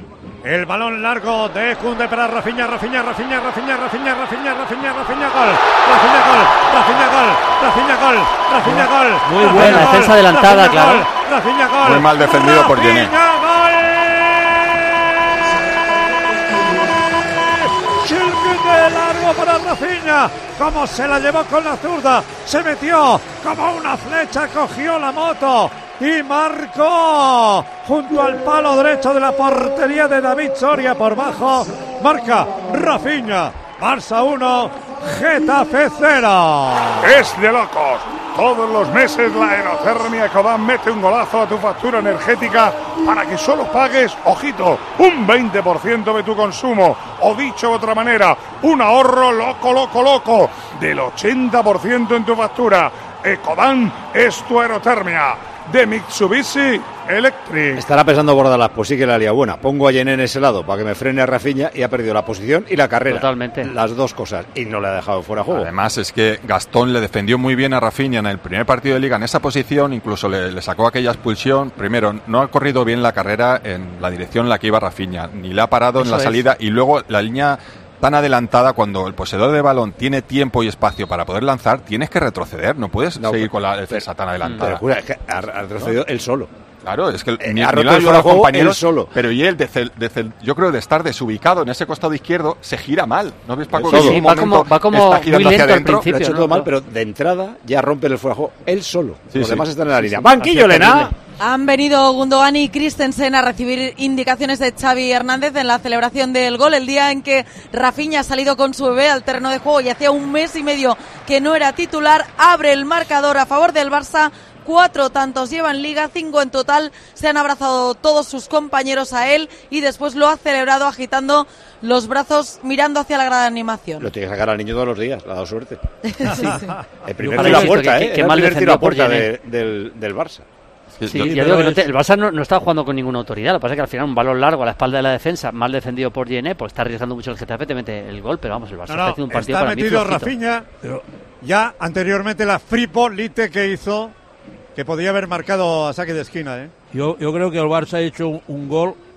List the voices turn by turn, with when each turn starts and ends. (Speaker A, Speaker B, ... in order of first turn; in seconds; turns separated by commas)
Speaker A: 0.4-15.5, Speaker B: 8.6-9.9, Speaker C: 9.4-11.1, Speaker D: 11.8-13.1, Speaker A: 16.7-37.1, Speaker E: 37.1-57.8, Speaker F: 57.7-65.7, Speaker C: 63.1-63.7, Speaker D: 65.5-84.8, Speaker C: 76.0-76.4, Speaker F: 83.2-84.0, Speaker C: 84.4-84.7, Speaker F: 84.6-86.5, Speaker D: 86.8-96.0, Speaker F: 87.4-89.1, Speaker F: 93.7-94.2, Speaker C: 93.8-96.7, Speaker F: 96.0-101.1, Speaker D: 99.3-99.7, Speaker C: 100.0-101.2, Speaker G: 101.4-124.1, Speaker F: 124.0-125.8, Speaker G: 126.2-126.8, Speaker F: 127.0-130.4, Speaker C: 127.2-129.3, Speaker D: 131.0-131.4, Speaker C: 131.1-140.3, Speaker B: 131.2-131.9, Speaker A: 138.9-140.7, Speaker A: 141.4-144.1, Speaker A: 144.7-146.7, Speaker B: 146.9-149.0